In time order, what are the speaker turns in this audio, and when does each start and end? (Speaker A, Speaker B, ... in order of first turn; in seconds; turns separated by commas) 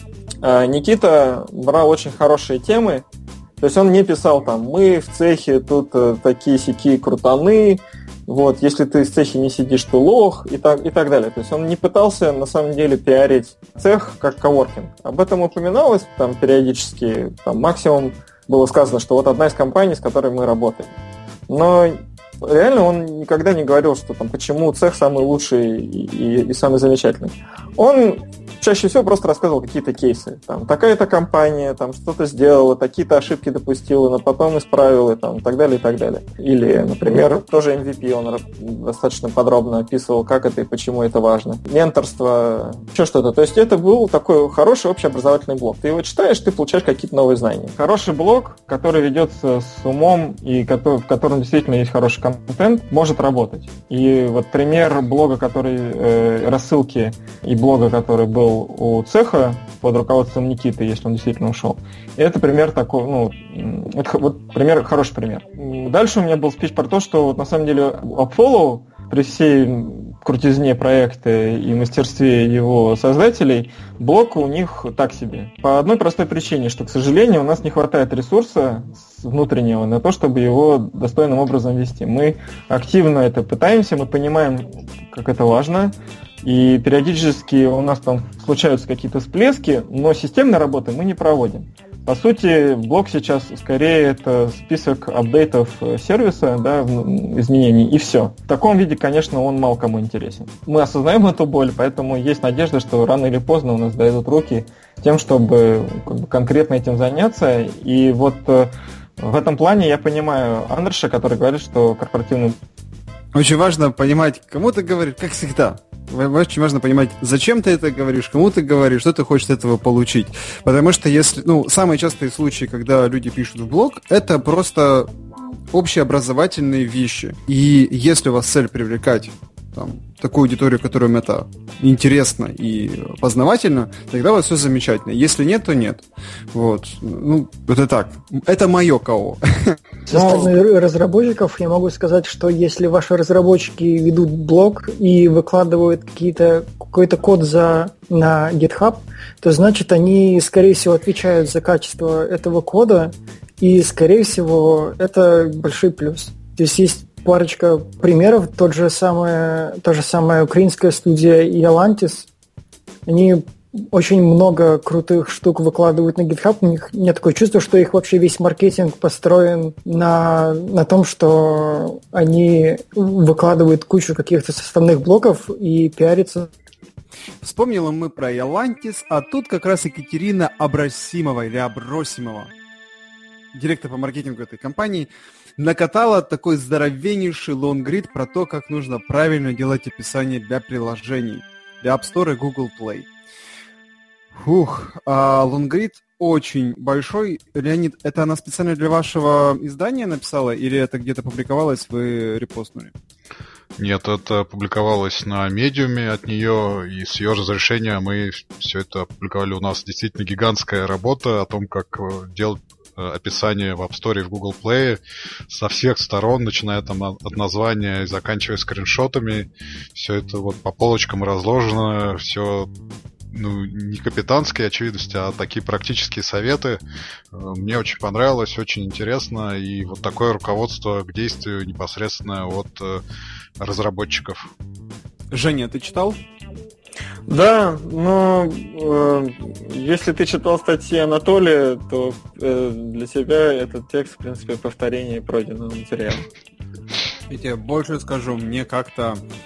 Speaker A: 0.4-3.0, Speaker A: 3.6-20.9, Speaker A: 21.5-112.6, Speaker B: 113.3-139.8, Speaker C: 140.1-162.3, Speaker A: 140.1-140.5, Speaker C: 163.1-176.5, Speaker B: 177.4-182.5, Speaker B: 183.5-193.1, Speaker B: 194.3-202.9, Speaker D: 203.8-222.7, Speaker D: 223.3-226.8, Speaker D: 227.3-233.0, Speaker D: 233.6-234.5, Speaker B: 235.3-236.2, Speaker A: 237.3-246.3, Speaker B: 247.3-249.2